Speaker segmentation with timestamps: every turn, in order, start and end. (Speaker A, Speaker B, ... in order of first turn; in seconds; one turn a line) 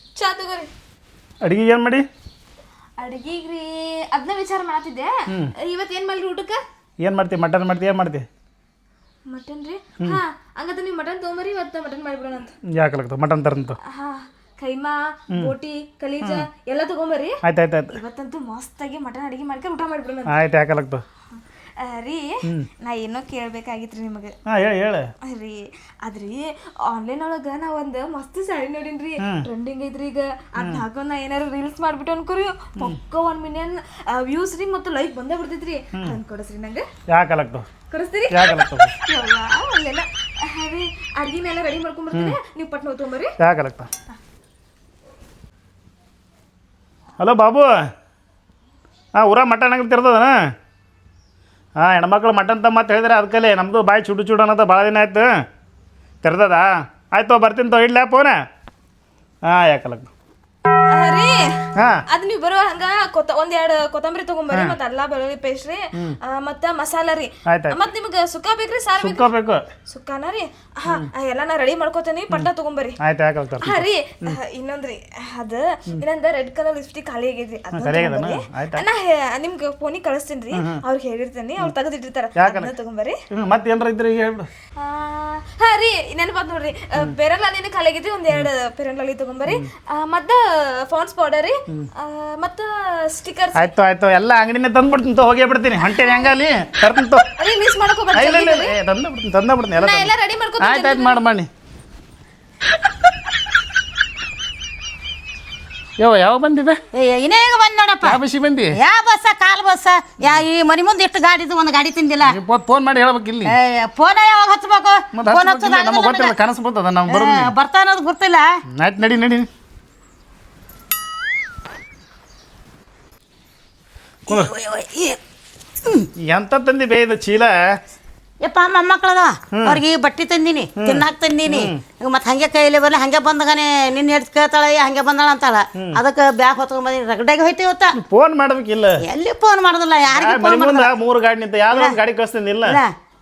Speaker A: 0.1-0.7
Speaker B: 1.4-2.0
Speaker A: 3.0-6.6
Speaker B: 7.0-8.2
Speaker A: 9.3-12.5
Speaker B: 12.7-13.8
Speaker A: 13.8-17.4
Speaker B: 17.4-17.9
Speaker A: 17.9-20.3
Speaker B: 20.3-21.0
Speaker A: 21.8-24.3
Speaker B: 24.4-25.1
Speaker A: 25.2-36.8
Speaker B: 29.2-29.4
Speaker B: 30.6-30.8
Speaker B: 37.1-37.6
Speaker A: 37.9-38.4
Speaker B: 38.3-38.9
Speaker A: 39.0-43.3
Speaker B: 43.4-43.9
Speaker B: 47.2-47.8
Speaker B: 49.1-50.5
Speaker B: 51.8-55.4
Speaker B: 56.2-58.4
Speaker B: 59.4-60.1
Speaker A: 60.9-69.3
Speaker B: 64.5-64.8
Speaker B: 67.5-67.8
Speaker B: 69.0-69.7
Speaker A: 69.9-73.0
Speaker B: 73.0-74.4
Speaker A: 73.6-83.1
Speaker B: 77.7-78.8
Speaker B: 80.5-80.8
Speaker B: 82.4-82.7
Speaker B: 83.3-84.5
Speaker A: 84.8-93.7
Speaker B: 93.5-97.2
Speaker A: 95.8-96.3
Speaker A: 97.4-98.7
Speaker B: 98.1-101.5
Speaker A: 99.8-101.2
Speaker B: 106.0-106.8
Speaker C: 106.9-112.4
Speaker B: 108.0-108.8
Speaker B: 112.3-113.5
Speaker C: 113.4-116.3
Speaker B: 115.1-117.5
Speaker C: 117.1-118.5
Speaker B: 118.7-119.5
Speaker C: 124.3-125.2
Speaker C: 125.8-126.1
Speaker B: 126.2-127.8
Speaker C: 128.4-138.0
Speaker B: 129.5-129.8
Speaker B: 130.8-131.8
Speaker B: 137.9-139.0
Speaker C: 139.0-140.9
Speaker B: 140.1-142.8
Speaker C: 141.7-142.0
Speaker C: 142.6-142.9